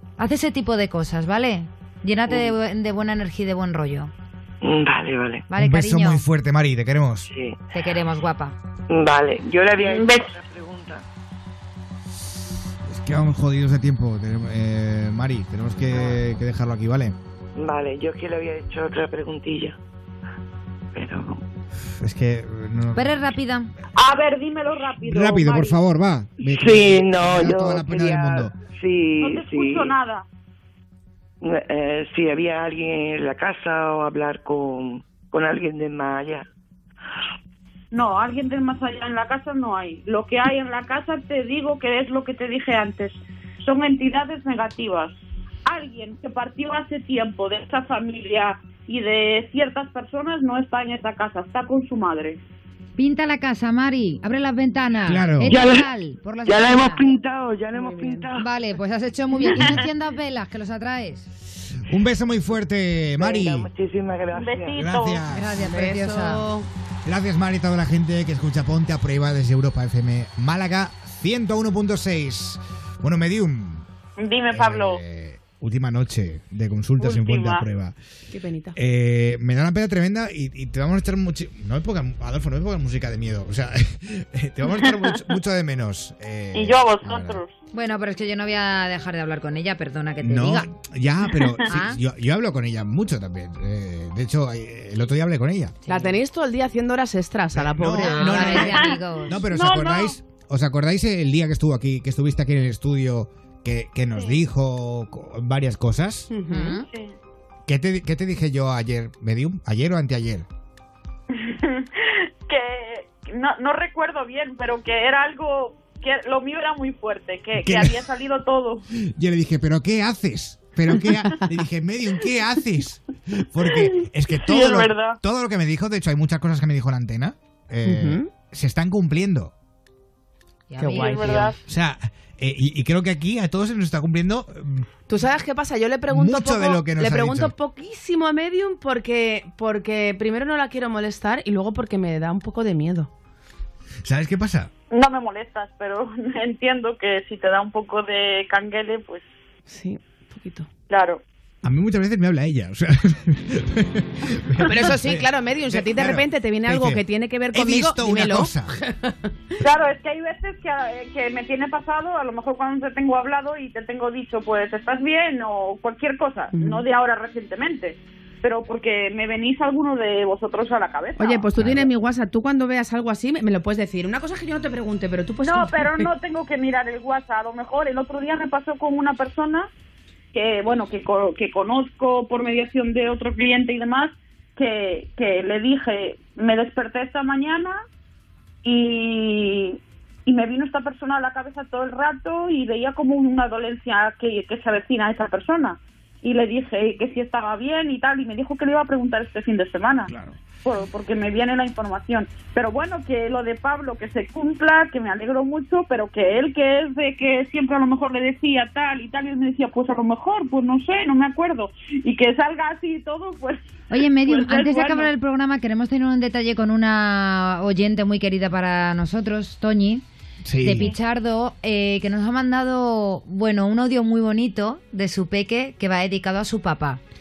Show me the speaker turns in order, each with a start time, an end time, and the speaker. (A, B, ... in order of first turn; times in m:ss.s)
0:00.2-0:04.1 A
0:04.6-0:05.4 B
0:05.5-0:06.2 A
0:05.6-0:07.3 C
0:07.2-0:07.6 B
0:07.7-0:08.6 A
0:08.9-0:11.0 B
0:09.8-0:10.3 D
0:12.8-0:17.2 C
0:17.6-0:19.8 B
0:20.9-0:21.4 B
0:22.0-0:23.2 C
0:22.9-0:23.7 A
0:23.9-0:25.8 D
0:25.0-0:28.5 C
0:26.4-0:29.8 B
0:29.2-0:30.2 D
0:31.4-0:36.4 B
0:37.9-0:52.4 D
0:53.0-0:57.1 A
0:55.1-0:55.6 C
0:55.5-0:55.8 B
0:56.4-0:58.3 B
0:57.7-0:58.3 E
0:58.3-1:01.3 A
0:59.6-0:59.8 D
1:01.8-1:03.7 C
1:03.2-1:04.8 B
1:04.3-1:05.2 D
1:04.7-1:05.6 C
1:05.3-1:06.5 A
1:05.6-1:06.7 E
1:07.0-1:13.8 C
1:14.2-1:15.0 D
1:14.5-1:18.0 C
1:17.0-1:17.7 D
1:18.3-1:18.8 E
1:18.7-1:27.4 C
1:24.8-1:25.2 D
1:26.5-1:27.6 D
1:27.7-1:30.7 A
1:30.2-1:35.8 C
1:31.7-1:32.0 A
1:35.8-1:36.2 A
1:35.9-1:38.5 E
1:37.5-1:46.3 C
1:37.9-1:39.4 A
1:38.3-1:40.2 D
1:44.1-1:44.4 D
1:46.3-1:46.8 E
1:46.5-1:46.8 A
1:46.8-1:47.1 D
1:47.7-1:50.5 C
1:51.3-1:58.8 D
1:57.6-1:58.0 C
1:58.9-2:09.5 C
2:04.4-2:05.2 D
2:07.8-2:08.3 E
2:10.7-2:11.4 A
2:10.8-2:11.6 E
2:10.9-2:11.6 D
2:11.3-2:14.9 C
2:15.1-2:23.1 E
2:16.1-2:17.5 C
2:24.0-2:24.7 C
2:24.9-2:29.2 D
2:29.7-2:30.7 E
2:30.9-2:31.2 D
2:31.6-2:38.7 C
2:34.6-2:39.2 E
2:39.6-2:51.6 D
2:46.5-2:46.8 E
2:51.2-2:56.1 E
2:51.6-2:51.9 C
2:55.4-2:59.7 D
3:00.3-3:07.8 D
3:08.6-3:35.1 D
3:20.1-3:20.4 C
3:33.9-3:40.0 A
3:40.4-3:40.9 C
3:40.6-3:47.0 A